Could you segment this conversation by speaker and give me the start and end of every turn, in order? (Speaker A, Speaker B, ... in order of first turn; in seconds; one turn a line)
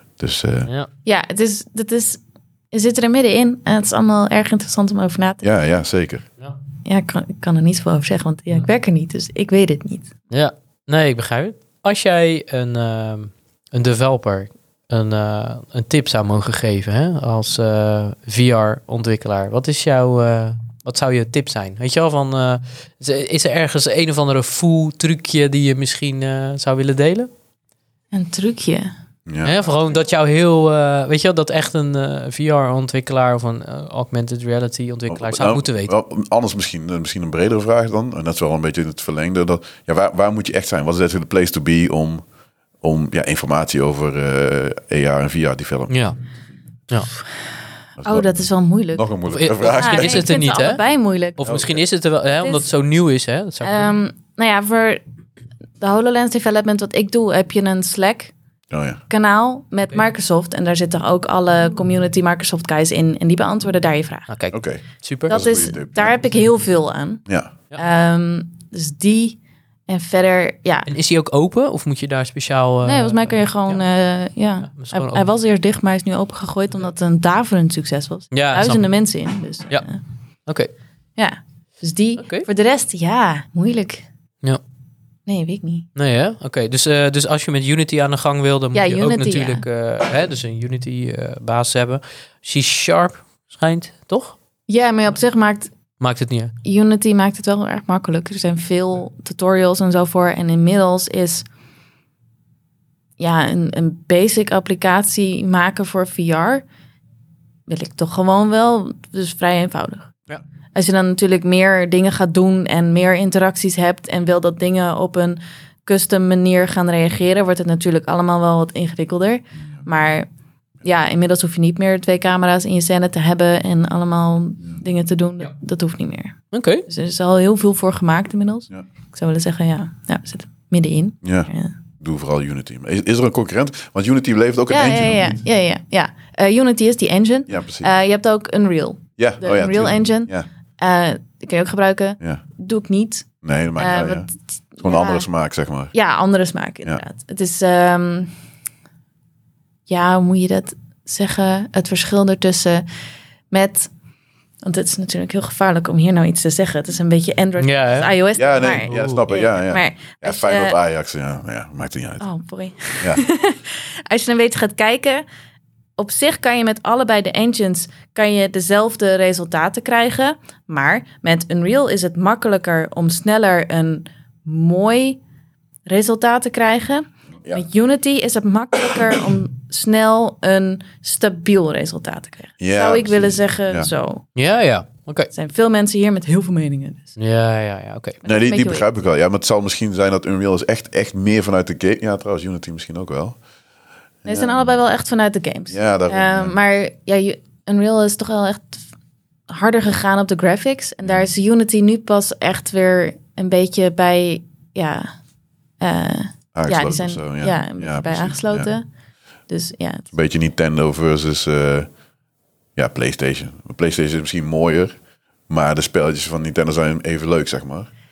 Speaker A: 0.2-0.7
Speaker B: 1.0-5.4
Speaker A: 5.4-6.2
Speaker B: 6.8-10.1
Speaker C: 10.3-27.3
Speaker B: 28.1-28.9
Speaker A: 29.3-29.6
Speaker C: 29.4-35.9
Speaker A: 35.1-42.2
Speaker A: 42.8-46.0
Speaker C: 45.9-46.2
Speaker A: 48.0-50.3
Speaker B: 48.0-49.1
Speaker C: 49.3-50.8
Speaker B: 49.7-51.4
Speaker C: 51.4-54.0
Speaker A: 51.4-51.8
Speaker B: 52.4-52.7
Speaker B: 53.6-55.0
Speaker B: 55.8-58.3
Speaker A: 58.7-59.0
Speaker B: 59.1-64.3
Speaker C: 64.3-65.4
Speaker A: 64.5-66.3
Speaker B: 65.3-70.9
Speaker A: 67.3-67.5
Speaker C: 70.9-73.8
Speaker B: 72.8-80.0
Speaker C: 74.6-75.2
Speaker C: 78.3-78.8
Speaker B: 81.2-84.0
Speaker C: 82.2-82.5
Speaker B: 85.3-85.9
Speaker C: 86.0-94.3
Speaker B: 88.7-89.6
Speaker B: 94.7-95.7
Speaker C: 96.0-96.5
Speaker B: 96.6-101.5
Speaker B: 103.2-106.6
Speaker B: 107.7-110.1
Speaker B: 110.8-120.3
Speaker B: 120.8-126.3
Speaker C: 126.5-126.9
Speaker B: 126.9-131.7
Speaker A: 131.2-135.4
Speaker B: 134.7-143.3
Speaker A: 137.5-137.9
Speaker A: 139.2-140.4
Speaker A: 143.4-144.3
Speaker B: 143.8-145.3
Speaker A: 144.8-145.9
Speaker B: 145.9-148.3
Speaker B: 149.9-152.8
Speaker B: 153.5-153.9
Speaker B: 154.6-160.8
Speaker C: 157.6-158.1
Speaker A: 158.3-162.2
Speaker C: 158.8-159.2
Speaker B: 162.2-165.2
Speaker B: 166.0-175.2
Speaker B: 175.9-184.2
Speaker A: 182.6-183.9
Speaker C: 184.3-185.3
Speaker B: 185.3-187.1
Speaker C: 187.2-188.2
Speaker B: 188.2-188.8
Speaker A: 188.2-193.4
Speaker A: 194.2-194.7
Speaker B: 194.2-198.8
Speaker A: 195.7-196.5
Speaker B: 199.5-205.1
Speaker B: 205.8-208.9
Speaker A: 206.5-208.7
Speaker B: 209.5-210.1
Speaker A: 210.1-211.9
Speaker A: 212.8-214.9
Speaker A: 215.5-217.9